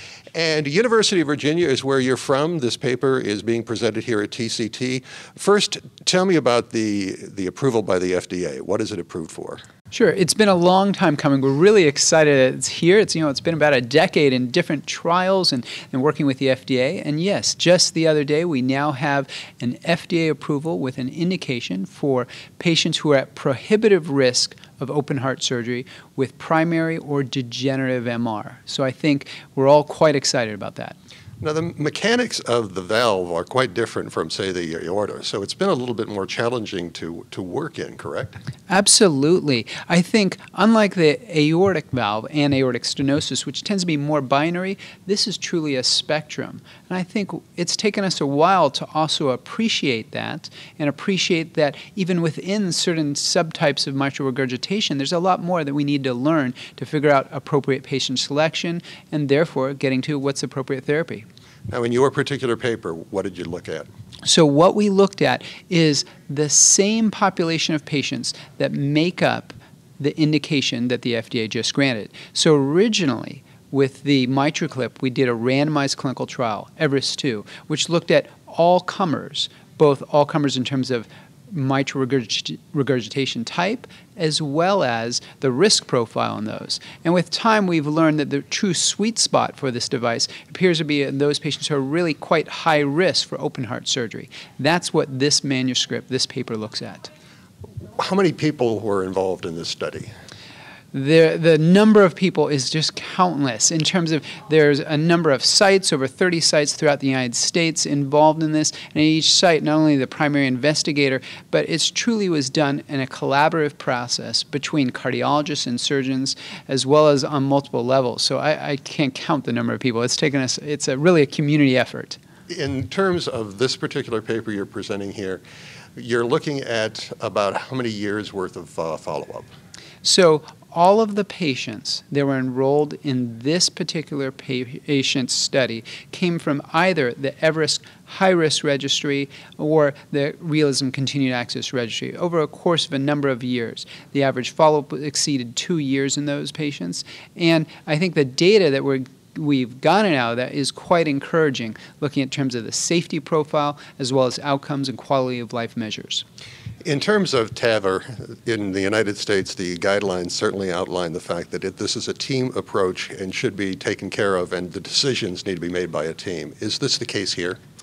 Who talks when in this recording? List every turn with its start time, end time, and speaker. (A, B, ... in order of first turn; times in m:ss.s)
0:00.3-0:09.6 A
0:09.9-0:31.0 B
0:31.4-0:38.4 A
0:38.7-1:01.2 B
1:01.7-1:03.9 A
1:04.2-1:37.1 B
1:38.0-1:40.1 A
1:40.9-2:02.2 B
2:02.5-2:05.4 A
2:06.0-2:09.5 A
2:10.0-2:36.2 B
2:36.8-2:47.6 A